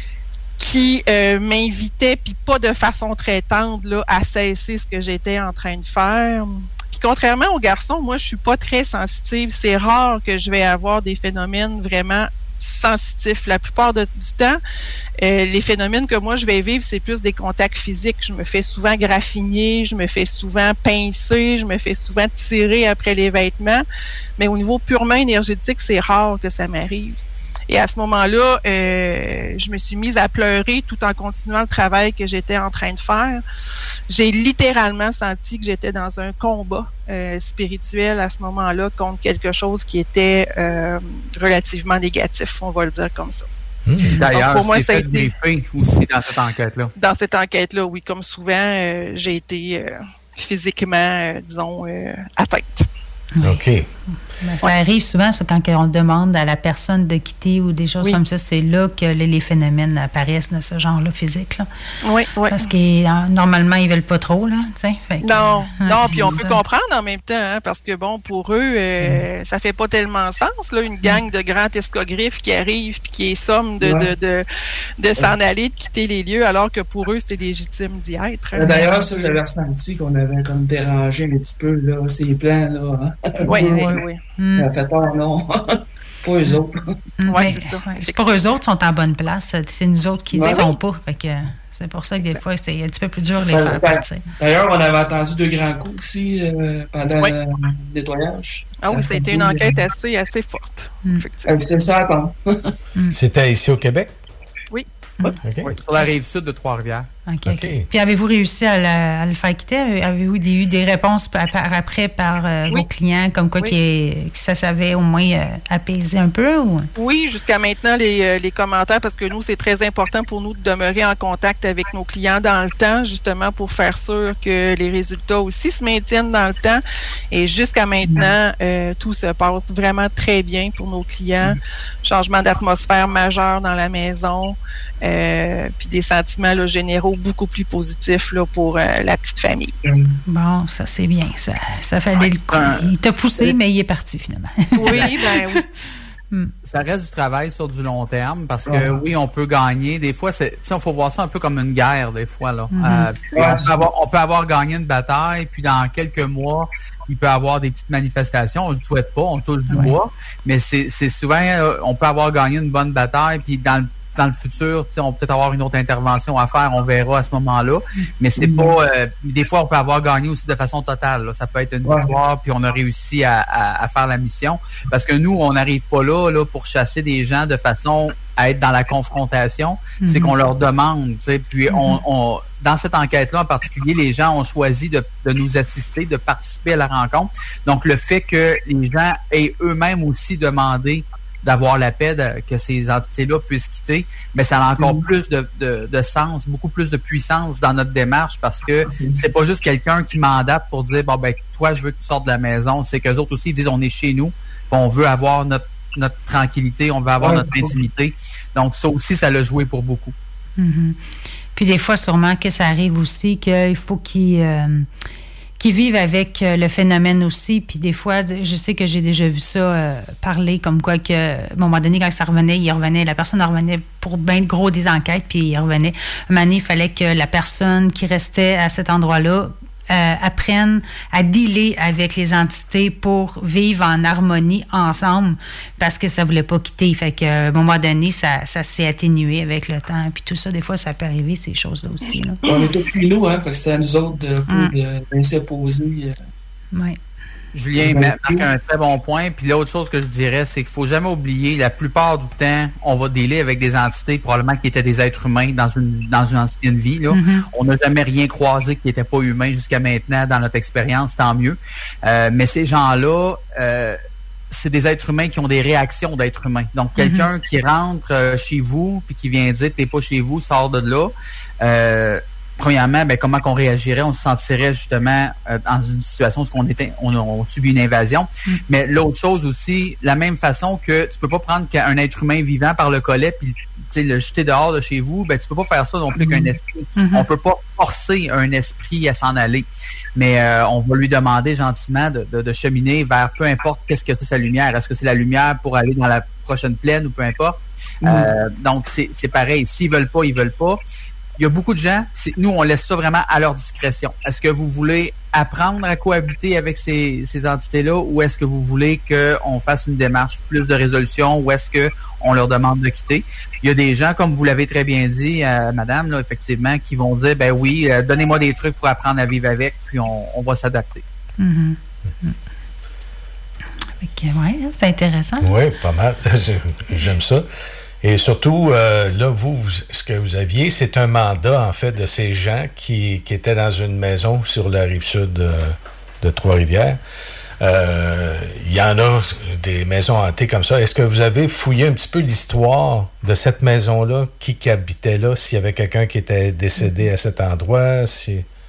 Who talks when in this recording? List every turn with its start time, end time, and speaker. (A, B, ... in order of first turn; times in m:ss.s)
0:00.6-0:14.6 A
0:15.2-0:23.8 A
0:24.4-0:27.2 A
0:27.7-0:33.4 A
0:34.1-0:43.4 A
0:43.8-0:44.2 B
0:44.2-0:46.9 C
0:44.3-0:45.3 A
0:47.0-0:52.8 A
0:53.4-0:53.6 D
0:53.4-0:53.8 B
0:54.4-1:01.7 D
1:02.0-1:02.7 A
1:02.5-1:06.6 D
1:05.2-1:14.4 A
1:06.1-1:06.4 E
1:13.8-1:14.1 E
1:15.0-1:18.9 A
1:18.5-1:24.0 E
1:23.4-1:24.2 A
1:24.4-1:24.7 D
1:24.6-1:26.9 E
1:27.2-1:34.2 D
1:27.3-1:28.3 A
1:30.3-1:30.8 E
1:33.5-1:39.8 E
1:38.8-1:41.6 A
1:41.4-1:42.7 E
1:43.1-1:44.1 B
1:44.7-1:45.3 A
1:45.4-1:45.7 B
1:45.6-1:47.1 C
1:47.3-1:56.9 D
1:47.4-1:47.9 B
1:57.0-2:19.7 A
2:08.0-2:08.3 E
2:19.8-2:20.1 E
2:20.3-2:25.6 D
2:22.2-2:22.9 C
2:24.8-2:25.6 A
2:26.6-3:30.1 C
2:28.7-2:29.0 E
2:32.7-2:33.1 D
2:33.3-2:33.8 E
2:48.4-2:48.7 E
2:51.8-2:52.1 E
3:00.0-3:00.3 D
3:01.7-3:02.0 D
3:14.8-3:15.0 E
3:18.9-3:19.2 E
3:27.2-3:27.7 E
3:30.6-3:31.0 D
3:31.5-3:34.9 D
3:35.6-4:02.4 D
4:02.4-4:06.1 E
4:06.7-4:07.0 D
4:07.5-4:24.0 C
4:07.8-4:08.5 E
4:17.1-4:17.5 D
4:24.5-5:00.8 C
4:27.0-4:27.3 D
4:47.0-4:47.3 D
4:58.0-4:58.3 E
5:01.4-5:21.0 C
5:21.4-5:22.3 D
5:24.0-5:25.5 D
5:25.4-5:27.5 B
5:28.0-5:37.0 B
5:37.6-5:48.5 B
5:46.8-5:47.0 D